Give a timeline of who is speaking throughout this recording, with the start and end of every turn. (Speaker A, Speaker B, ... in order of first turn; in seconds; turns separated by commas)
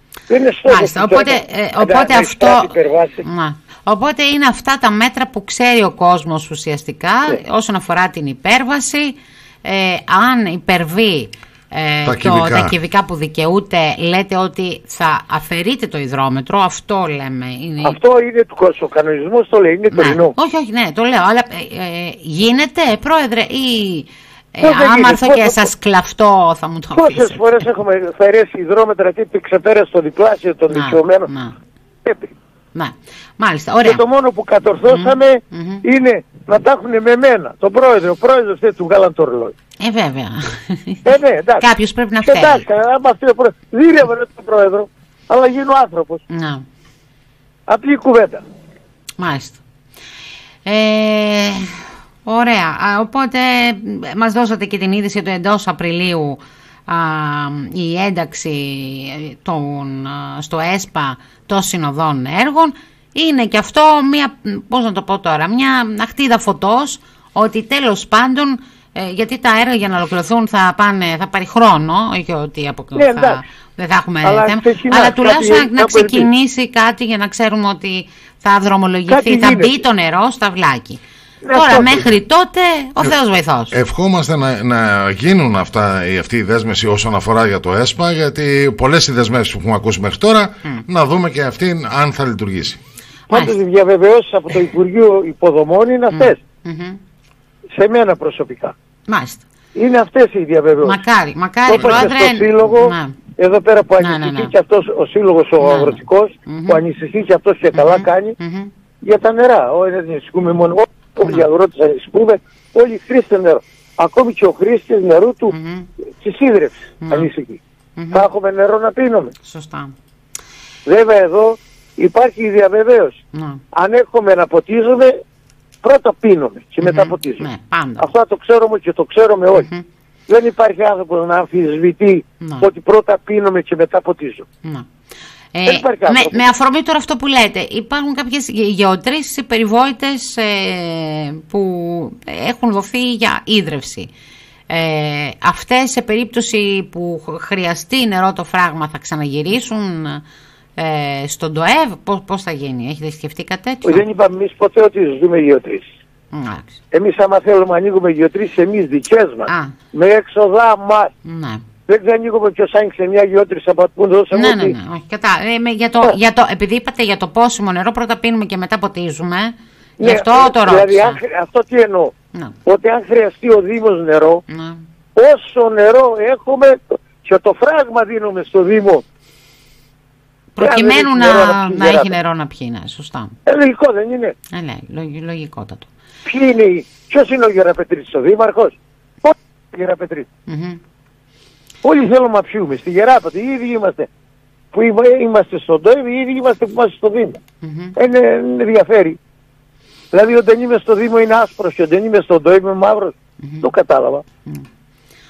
Speaker A: 0.3-3.2, Speaker B: 0.7-18.0, Speaker C: 12.1-12.7, Speaker A: 17.8-20.4, Speaker B: 19.9-27.4, Speaker A: 24.6-25.7, Speaker A: 26.9-31.3, Speaker B: 30.7-31.5, Speaker A: 32.0-32.3, Speaker B: 32.7-34.0, Speaker A: 33.8-39.5, Speaker B: 34.9-35.8, Speaker B: 39.8-42.7, Speaker A: 41.0-41.7, Speaker A: 42.2-46.2, Speaker B: 46.3-46.6, Speaker A: 47.7-48.4, Speaker B: 49.2-49.6, Speaker B: 50.6-81.0, Speaker A: 72.9-73.4, Speaker A: 74.2-76.3, Speaker A: 79.1-79.8, Speaker A: 81.4-82.0, Speaker B: 81.5-83.8, Speaker C: 83.7-92.8, Speaker B: 93.3-93.6, Speaker A: 93.3-96.4, Speaker B: 96.1-97.0, Speaker A: 97.7-98.8, Speaker B: 99.1-99.4, Speaker A: 99.7-101.0, Speaker B: 100.8-103.2, Speaker A: 101.7-108.4, Speaker B: 104.0-104.5, Speaker B: 105.6-106.8, Speaker B: 107.7-108.7, Speaker A: 109.0-115.5, Speaker B: 115.5-115.9, Speaker A: 116.2-117.6, Speaker B: 117.0-117.3, Speaker B: 118.0-118.3, Speaker A: 118.1-119.3, Speaker B: 119.4-120.0, Speaker A: 120.9-123.2, Speaker B: 123.3-123.6, Speaker A: 123.7-125.2, Speaker A: 125.8-127.5, Speaker B: 126.8-128.1, Speaker A: 128.0-129.7, Speaker B: 129.6-129.8, Speaker A: 130.3-134.5, Speaker B: 132.4-132.7, Speaker B: 135.5-144.1, Speaker A: 135.7-136.4, Speaker B: 144.7-150.2, Speaker B: 150.8-154.1, Speaker A: 153.8-155.9, Speaker B: 156.3-156.8, Speaker A: 156.9-161.1, Speaker B: 159.5-159.7, Speaker B: 161.2-161.6, Speaker A: 161.9-164.8, Speaker B: 164.3-171.2, Speaker A: 170.0-172.1, Speaker A: 172.7-174.4, Speaker B: 174.5-174.8, Speaker A: 175.2-179.0, Speaker B: 180.6-183.3, Speaker A: 180.6-182.2, Speaker A: 183.5-184.4, Speaker B: 184.5-185.9, Speaker A: 186.2-190.3, Speaker B: 190.5-190.8, Speaker A: 191.8-194.1, Speaker A: 194.7-197.4, Speaker B: 197.6-198.0, Speaker A: 198.0-199.2, Speaker A: 200.1-204.2, Speaker B: 203.4-203.7